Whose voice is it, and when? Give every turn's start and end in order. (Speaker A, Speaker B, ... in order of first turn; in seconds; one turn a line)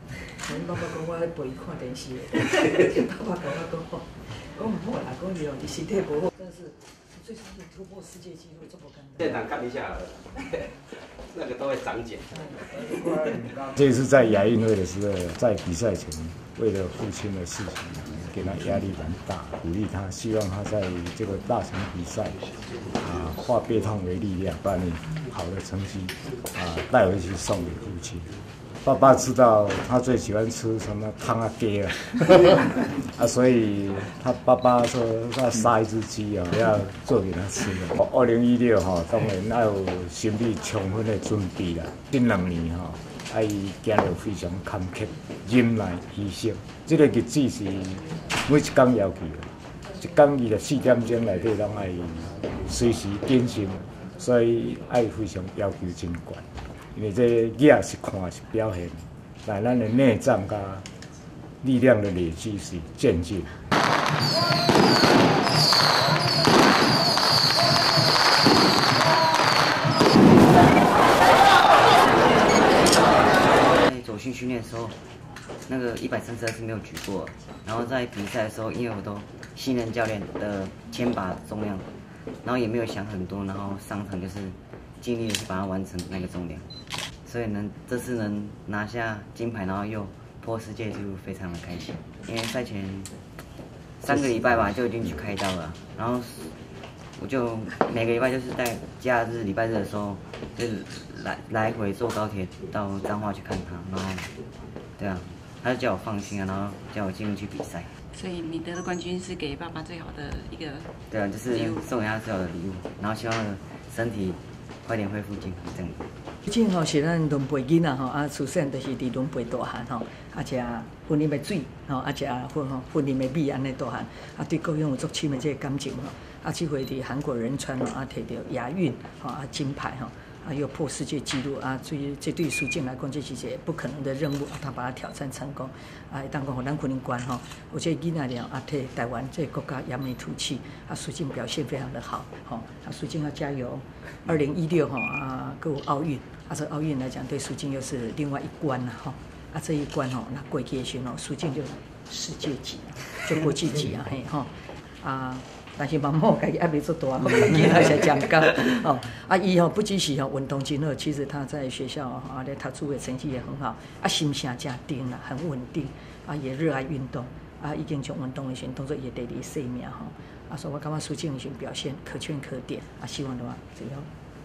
Speaker A: 0.3-9.4
Speaker B: 9.2-12.5
Speaker C: 12.8-28.3
Speaker C: 28.8-60.9
Speaker C: 61.6-63.7
Speaker D: 72.2-75.0
Speaker D: 75.6-81.9
Speaker D: 82.4-86.7
Speaker D: 87.2-93.2
Speaker D: 94.0-96.6
Speaker D: 97.2-104.3
Speaker D: 105.0-107.9
Speaker E: 108.1-110.9
Speaker D: 111.1-116.1
Speaker E: 111.5-111.8
Speaker A: 116.4-174.1